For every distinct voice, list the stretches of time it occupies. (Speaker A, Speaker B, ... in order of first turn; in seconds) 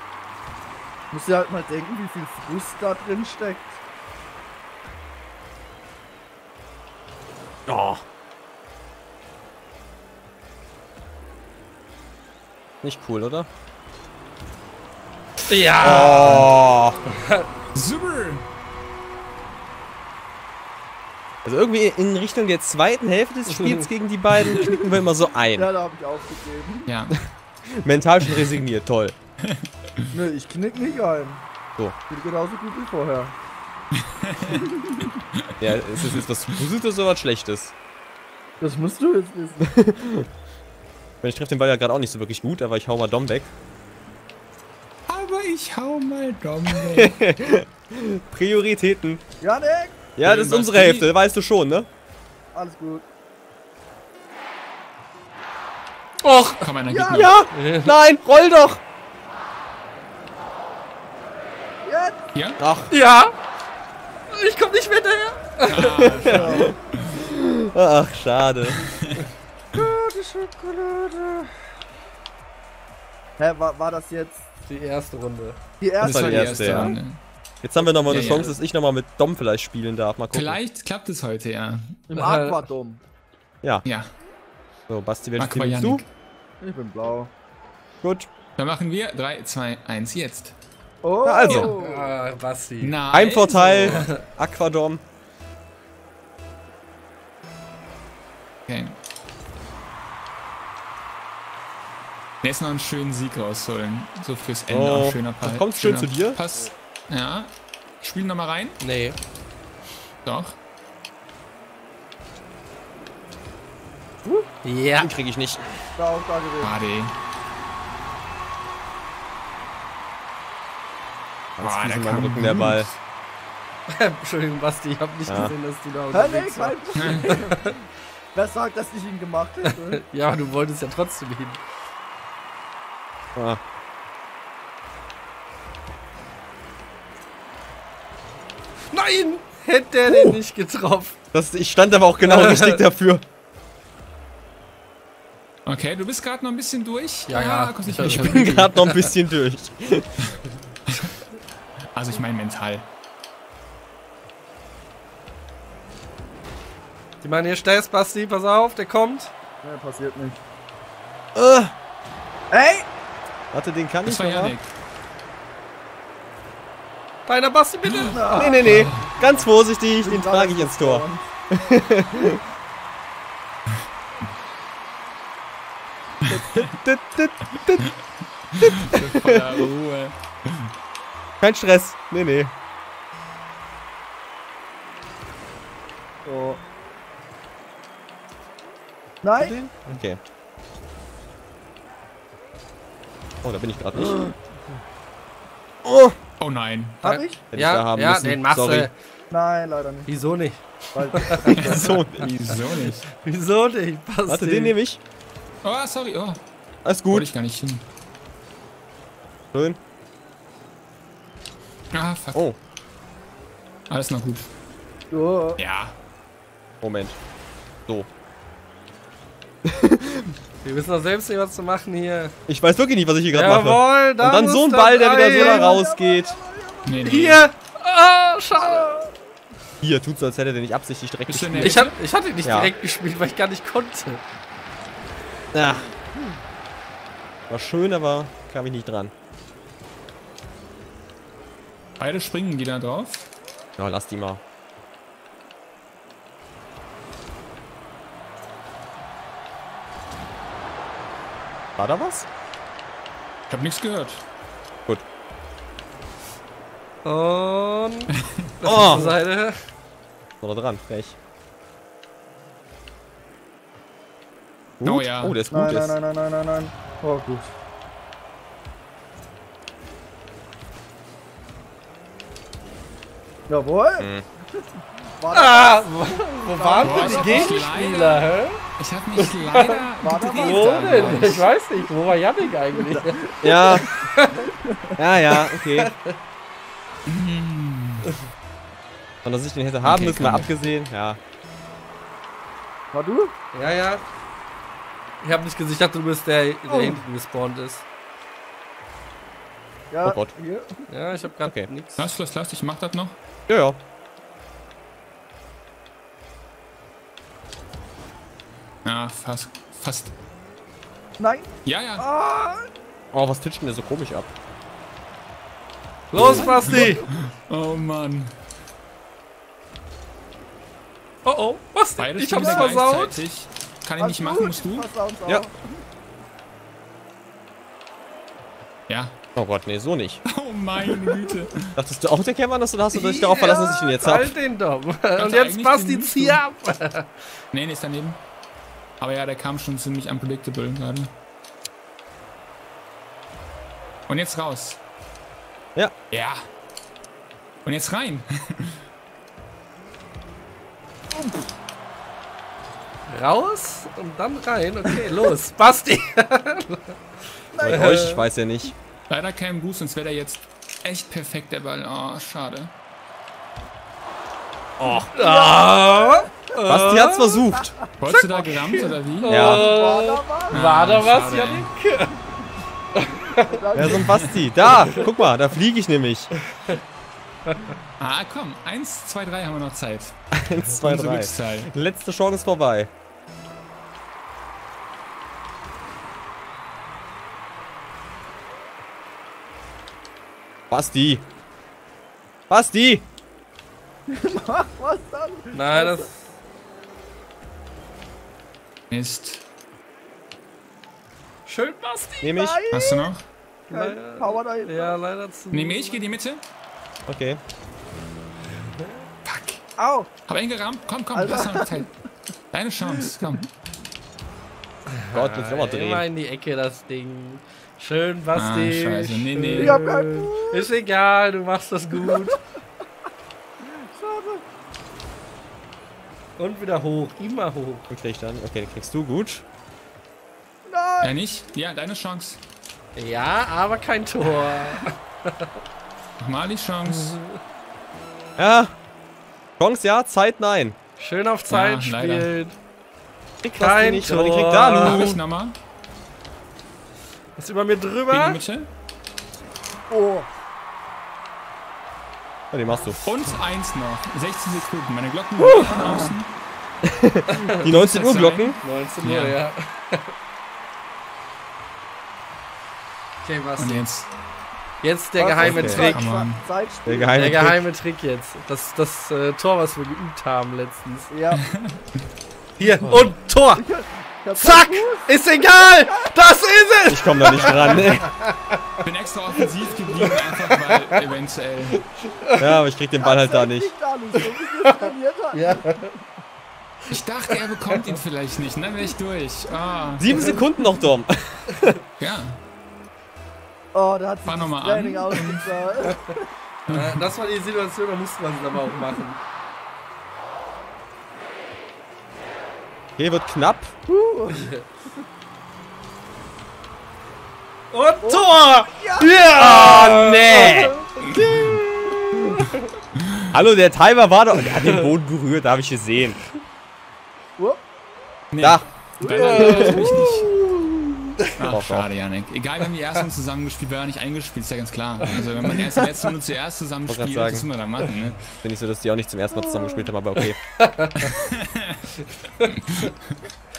Speaker A: 1.1-3.8, 25.6-26.9, 30.1-31.4, 32.1-33.3, 34.5-35.2, 38.6-39.7, 49.4-50.1, 52.5-53.0, 56.9-57.4, 61.8-62.2, 66.2-66.7, 69.7-71.5, 73.4-74.4, 75.8-77.0, 82.1-83.0, 86.6-87.3, 91.0-92.1, 116.0-116.7, 126.1-127.8, 128.3-130.0, 159.6-160.4, 162.5-162.9, 168.0-169.5, 170.0-171.3, 186.2-186.6, 189.2-189.6, 197.0-197.4, 199.3-200.1, 200.9-201.9, 215.1-215.6, 225.2-227.4, 228.6-229.1, 265.5-267.5, 273.5-274.1, 275.2-275.9, 276.5-277.7, 280.0-281.4, 282.8-283.9, 284.4-285.0, 292.9-293.3, 296.7-297.0, 299.9-300.7, 311.2-312.7, 316.4-316.9, 324.0-325.6, 330.8-331.3, 333.3-333.8, 357.5-358.0, 365.1-366.3, 369.4-370.6, 373.4-374.3, 394.1-396.1, 402.3-403.1, 403.7-405.0, 409.8-410.1, 411.1-411.9, 419.6-420.7, 422.0-422.3, 423.8-424.4, 430.6-431.1, 449.9-450.3, 455.7-456.1, 465.2-467.3, 471.1-471.4, 473.6-476.2, 483.0-485.9, 493.7-496.2, 503.9-504.5, 508.0-509.2, 509.9-511.9, 517.4-517.6, 519.0-521.0, 529.5-529.8
Speaker B: 7.7-8.0, 12.8-13.5, 15.8-17.0, 21.4-25.7, 27.8-29.1, 35.6-37.7, 39.7-40.2, 41.2-43.5, 46.9-49.2, 50.1-51.9, 57.1-58.8, 62.6-62.9, 66.2-68.8, 76.0-77.0, 77.6-80.6, 84.9-86.0, 88.0-88.3, 91.2-91.7, 93.1-95.0, 104.7-106.4, 115.0-115.7, 121.6-122.9, 125.3-125.5, 141.3-143.2, 148.0-150.1, 161.3-161.7, 163.5-164.6, 168.3-172.4, 176.3-177.8, 179.2-179.5, 181.4-182.5, 189.4-190.2, 193.4-194.2, 195.8-196.2, 197.5-198.9, 201.7-202.2, 204.3-205.0, 206.8-207.3, 209.5-209.8, 216.8-217.2, 219.7-220.2, 222.5-226.3, 229.8-231.8, 232.4-232.7, 235.5-235.8, 237.5-239.1, 243.8-244.4, 251.8-252.3, 258.6-259.1, 260.4-261.2, 264.8-265.9, 274.0-274.2, 283.4-283.9, 285.0-285.9, 289.2-291.2, 300.0-300.3, 303.5-303.8, 313.1-314.3, 316.1-316.9, 329.4-330.2, 331.8-334.3, 357.6-358.7, 364.8-365.1, 366.6-367.7, 369.2-369.7, 373.7-376.3, 380.3-382.9, 390.7-391.2, 392.5-393.1, 402.2-402.6, 407.1-407.4, 415.1-416.0, 427.9-429.4, 438.4-438.7, 439.6-440.8, 443.4-445.1, 452.5-453.0, 456.8-458.6, 465.4-465.9, 466.9-467.6, 472.8-473.1, 476.9-478.0, 482.4-483.7, 490.0-491.7, 503.0-503.7, 509.4-510.7, 513.3-516.2, 519.3-519.9, 521.5-521.9, 525.5-526.0, 526.9-527.5, 528.4-530.4
Speaker C: 15.4-16.5, 17.1-17.4, 23.5-23.8, 56.2-56.6, 57.5-57.9, 62.9-63.3, 64.3-66.3, 74.7-75.6, 78.1-78.5, 82.2-82.6, 91.7-93.0, 108.8-109.2, 114.6-115.1, 123.9-127.7, 129.9-131.6, 138.9-141.2, 142.2-142.8, 147.3-149.1, 157.2-159.3, 167.2-168.5, 197.1-198.9, 200.1-201.7, 203.2-204.7, 220.6-222.3, 223.3-225.8, 227.0-229.1, 231.6-234.2, 257.0-259.6, 275.3-278.6, 279.1-279.8, 280.4-284.4, 285.4-285.9, 293.5-294.0, 295.2-297.9, 300.9-302.1, 316.1-317.0, 321.2-323.2, 332.9-337.1, 353.1-356.8, 357.7-358.2, 365.1-367.4, 368.0-372.2, 372.9-373.4, 377.4-377.8, 395.5-396.3, 401.4-402.4, 403.7-406.1, 415.1-422.4, 426.4-427.9, 432.9-434.9, 437.0-437.3, 441.0-442.6, 443.6-445.2, 447.4-448.4, 458.6-460.1, 463.2-463.8, 464.8-466.0, 467.1-471.1, 472.6-473.6, 474.4-478.6, 479.9-480.8, 481.8-482.4, 484.6-485.8, 496.7-499.2, 504.4-504.6, 507.7-510.7, 519.1-519.8, 530.6-531.0
Speaker D: 16.2-16.5, 17.7-18.4, 26.9-27.1, 34.2-34.6, 35.6-36.2, 45.1-47.1, 50.2-51.1, 56.6-57.4, 62.3-62.6, 65.7-67.2, 76.0-77.2, 78.0-78.6, 80.3-82.0, 83.8-84.1, 85.4-86.0, 88.6-90.5, 92.8-94.0, 98.7-99.0, 102.4-108.8, 110.2-110.6, 116.6-117.2, 121.6-123.0, 126.9-127.4, 145.7-148.7, 151.9-152.9, 164.0-164.7, 167.8-169.1, 176.2-176.6, 178.6-180.7, 196.4-197.1, 201.6-203.1, 205.6-206.4, 207.1-207.8, 211.9-212.4, 213.9-214.4, 215.6-215.9, 226.8-227.4, 231.3-232.0, 242.0-243.3, 253.5-254.2, 264.8-265.4, 276.8-281.5, 287.1-288.1, 289.8-290.5, 302.0-303.2, 308.8-310.1, 311.6-312.0, 316.3-318.3, 322.0-324.9, 328.9-329.1, 330.2-331.7, 335.1-336.4, 337.5-338.2, 339.0-341.1, 344.1-344.8, 346.1-346.4, 347.6-348.8, 359.1-362.7, 368.0-369.4, 370.5-371.7, 373.8-374.4, 378.0-380.1, 380.7-381.7, 398.9-399.4, 402.7-403.2, 405.5-406.4, 409.2-409.6, 410.3-411.9, 412.5-413.4, 418.3-419.8, 431.0-432.4, 436.2-437.2, 441.5-442.3, 444.8-445.6, 448.1-448.7, 453.0-456.3, 457.6-459.4, 463.6-464.1, 465.8-466.4, 471.3-471.8, 477.3-478.0, 478.8-481.8, 486.9-490.3, 492.0-492.4, 494.2-495.5, 496.7-497.0, 511.1-511.6, 518.3-520.3, 521.4-528.3, 531.0-531.8, 532.4-533.2